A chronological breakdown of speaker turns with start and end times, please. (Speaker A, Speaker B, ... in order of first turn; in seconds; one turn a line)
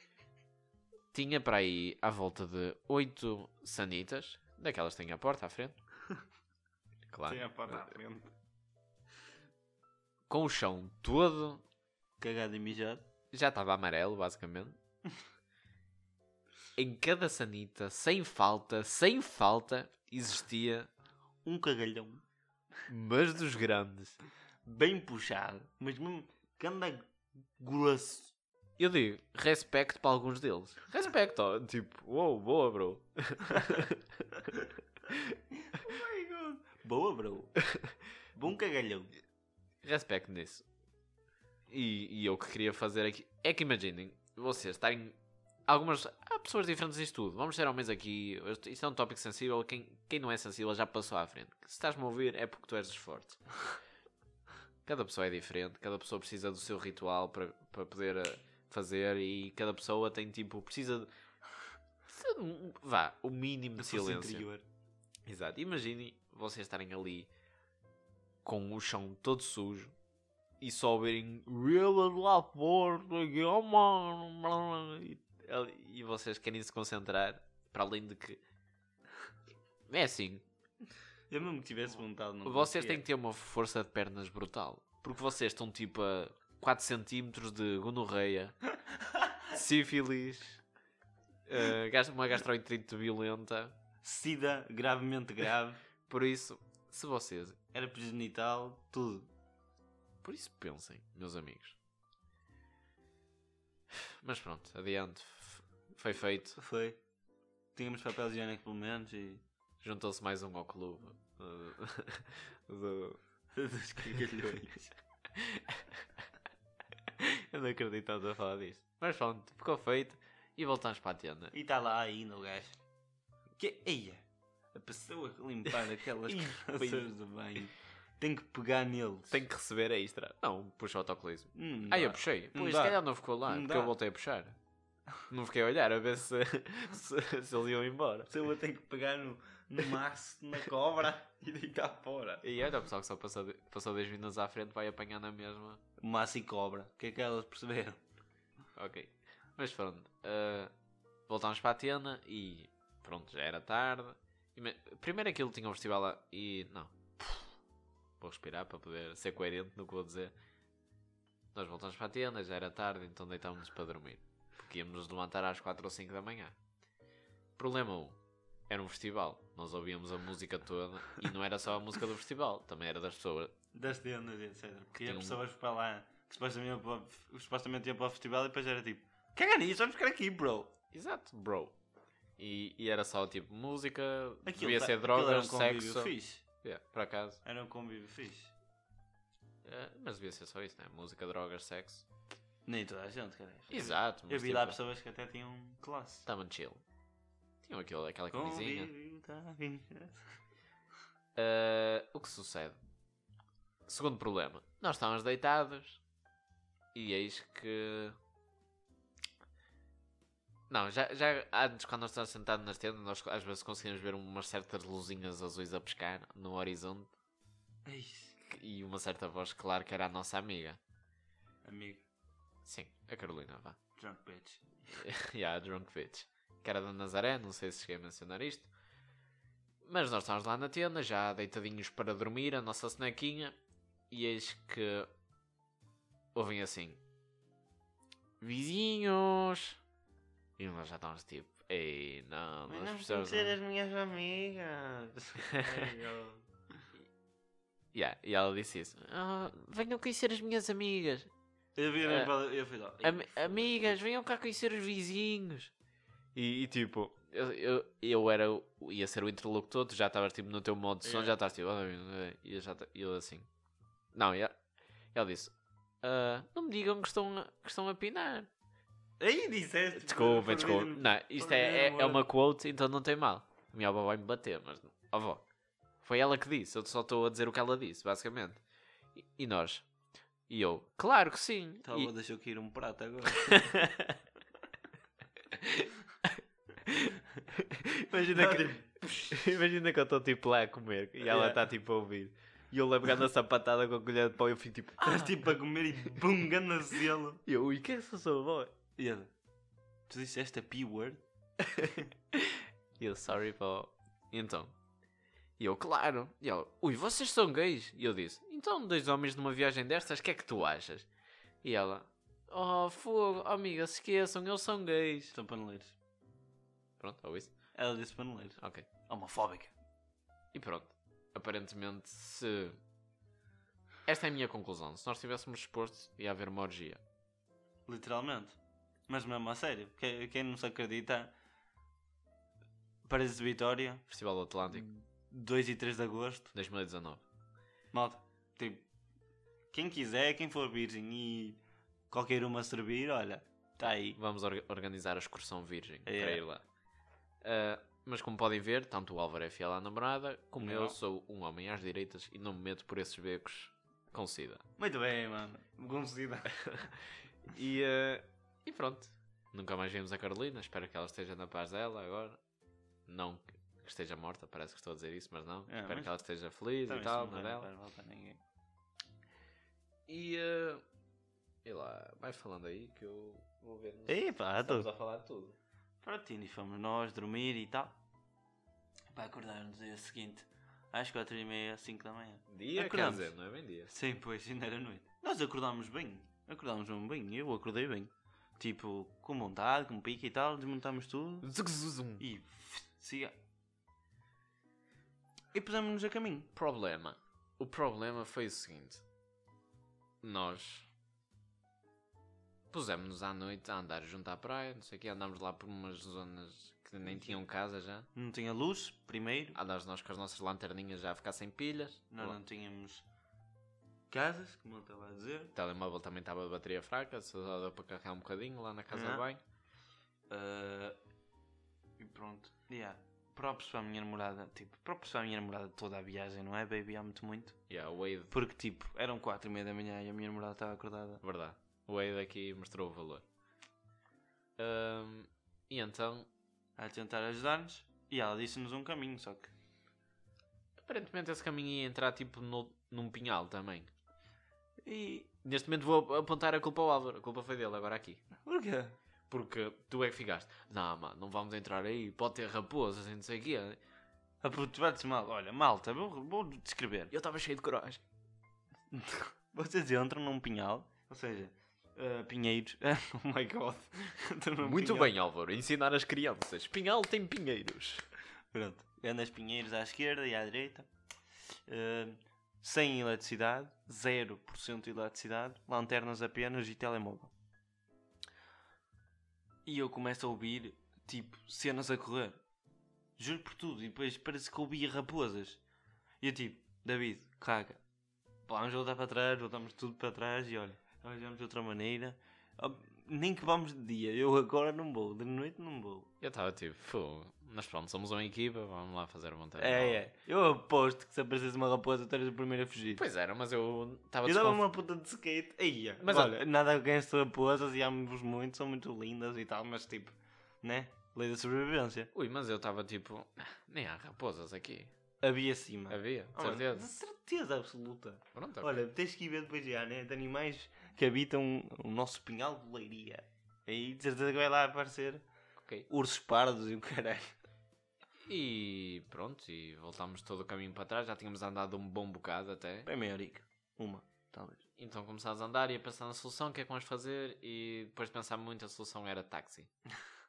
Speaker A: 1.1-5.8
Speaker A: 7.1-7.9
Speaker B: 7.3-8.3
Speaker A: 10.3-11.6
Speaker B: 12.2-13.1
Speaker A: 13.3-14.8
Speaker A: 16.8-20.9
Speaker B: 21.4-22.2
Speaker A: 22.9-24.2
Speaker B: 24.6-28.4
Speaker A: 28.8-34.2
Speaker B: 35.6-37.6
Speaker B: 38.3-39.1
Speaker A: 39.8-40.6
Speaker A: 41.7-53.6
Speaker A: 54.9-61.1
Speaker A: 62.1-64.5
Speaker B: 63.8-64.6
Speaker A: 65.3-67.3
Speaker A: 68.5-69.9
Speaker A: 70.6-78.4
Speaker A: 79.9-80.4
Speaker B: 81.3-83.0
Speaker A: 82.5-88.6
Speaker A: 89.5-90.6
Speaker A: 91.5-93.8
Speaker B: 94.0-95.8
Speaker A: 96.1-97.6
Speaker B: 97.7-99.3
Speaker A: 100.2-101.8
Speaker A: 103.9-106.6
Speaker B: 106.6-107.0
Speaker B: 107.8-109.4
Speaker A: 109.8-113.2
Speaker B: 113.5-114.9
Speaker A: 115.3-116.0
Speaker A: 117.2-121.5
Speaker B: 121.5-122.8
Speaker B: 123.6-129.4
Speaker A: 126.2-127.1
Speaker A: 129.3-134.6
Speaker B: 131.6-133.9
Speaker A: 135.3-138.3
Speaker B: 138.3-142.4
Speaker A: 142.4-145.8
Speaker B: 146.0-148.0
Speaker A: 148.8-150.7
Speaker A: 151.3-156.9
Speaker A: 158.2-160.3
Speaker A: 161.5-166.6
Speaker A: 167.6-168.2
Speaker A: 168.7-173.5
Speaker B: 173.7-180.7
Speaker A: 175.0-175.4
Speaker A: 180.9-181.8
Speaker A: 182.4-187.4
Speaker B: 184.4-186.4
Speaker B: 187.4-188.5
Speaker A: 189.6-192.1
Speaker B: 192.7-196.3
Speaker A: 193.7-194.8
Speaker A: 196.3-196.8
Speaker A: 197.6-198.9
Speaker B: 198.3-200.2
Speaker A: 201.3-202.8
Speaker A: 203.9-206.0
Speaker A: 206.9-208.2
Speaker A: 210.7-217.1
Speaker B: 217.8-218.4
Speaker A: 218.5-220.8
Speaker B: 221.6-222.1
Speaker A: 222.6-223.8
Speaker B: 224.0-224.8
Speaker A: 225.0-228.7
Speaker A: 229.8-233.6
Speaker A: 234.1-235.1
Speaker A: 236.3-237.0
Speaker A: 238.4-239.8
Speaker A: 240.6-243.6
Speaker B: 242.7-246.5
Speaker A: 245.5-245.9
Speaker A: 247.9-251.3
Speaker B: 251.8-254.0
Speaker A: 252.0-252.3
Speaker A: 253.0-255.7
Speaker A: 256.4-263.5
Speaker B: 261.0-261.4
Speaker A: 264.1-264.6
Speaker A: 265.1-268.5
Speaker B: 269.2-272.2
Speaker A: 270.0-275.4
Speaker A: 276.0-278.6
Speaker A: 279.2-279.9
Speaker A: 280.5-282.1
Speaker B: 281.8-283.7
Speaker A: 283.4-284.2
Speaker A: 285.5-295.4
Speaker B: 288.1-289.3
Speaker B: 291.2-291.6
Speaker B: 295.0-297.4
Speaker A: 297.5-298.7
Speaker B: 299.0-299.3
Speaker B: 300.1-301.2
Speaker A: 301.6-304.7
Speaker A: 305.6-311.1
Speaker A: 311.6-315.4
Speaker B: 315.3-316.0
Speaker A: 317.0-317.5
Speaker B: 317.8-319.7
Speaker A: 318.6-318.9
Speaker A: 320.5-322.8
Speaker A: 324.1-327.0
Speaker B: 327.9-328.6
Speaker B: 329.1-331.3
Speaker B: 333.1-334.1
Speaker A: 334.1-334.9
Speaker B: 334.7-336.5
Speaker A: 336.5-337.2
Speaker B: 337.9-338.9
Speaker B: 339.7-344.2
Speaker A: 344.1-346.6
Speaker B: 346.1-346.4
Speaker A: 347.4-354.6
Speaker B: 350.6-351.0
Speaker B: 354.8-356.7
Speaker A: 356.6-362.4
Speaker A: 363.1-367.7
Speaker B: 365.7-366.1
Speaker B: 366.9-368.4
Speaker A: 370.1-370.8
Speaker A: 371.6-375.6
Speaker B: 374.1-374.9
Speaker B: 376.0-378.0
Speaker B: 379.1-383.3
Speaker A: 382.5-383.9
Speaker B: 383.9-391.5
Speaker A: 391.4-392.3
Speaker B: 392.2-393.4
Speaker B: 395.5-396.5
Speaker A: 396.5-399.0
Speaker A: 400.2-400.9
Speaker A: 402.7-408.1
Speaker B: 407.0-407.4
Speaker B: 408.1-409.6
Speaker A: 409.6-412.4
Speaker B: 412.1-413.1
Speaker B: 414.1-415.6
Speaker A: 415.6-419.4
Speaker B: 418.9-419.3
Speaker B: 420.3-421.0
Speaker B: 422.0-427.6
Speaker A: 427.7-428.3
Speaker B: 428.3-431.2
Speaker A: 431.2-433.2
Speaker A: 434.6-436.3
Speaker B: 436.8-439.5
Speaker A: 440.8-443.9
Speaker B: 444.8-445.3
Speaker A: 445.4-448.2
Speaker B: 448.4-449.0
Speaker A: 449.3-453.8
Speaker B: 454.4-457.1
Speaker A: 457.1-458.0
Speaker B: 458.9-465.1
Speaker A: 464.6-468.1
Speaker B: 468.5-470.9
Speaker B: 471.7-477.3
Speaker B: 479.7-482.4
Speaker B: 483.2-485.6
Speaker B: 486.2-487.8
Speaker B: 488.5-496.1
Speaker A: 496.2-500.0
Speaker B: 499.6-503.0
Speaker A: 502.9-504.6
Speaker B: 504.2-512.1
Speaker A: 506.0-506.4
Speaker A: 512.1-514.9
Speaker B: 515.2-525.3
Speaker A: 515.9-516.9
Speaker A: 518.3-518.8
Speaker A: 525.6-525.9
Speaker B: 525.9-527.3
Speaker A: 528.2-532.9
Speaker B: 532.9-534.6
Speaker A: 534.8-539.7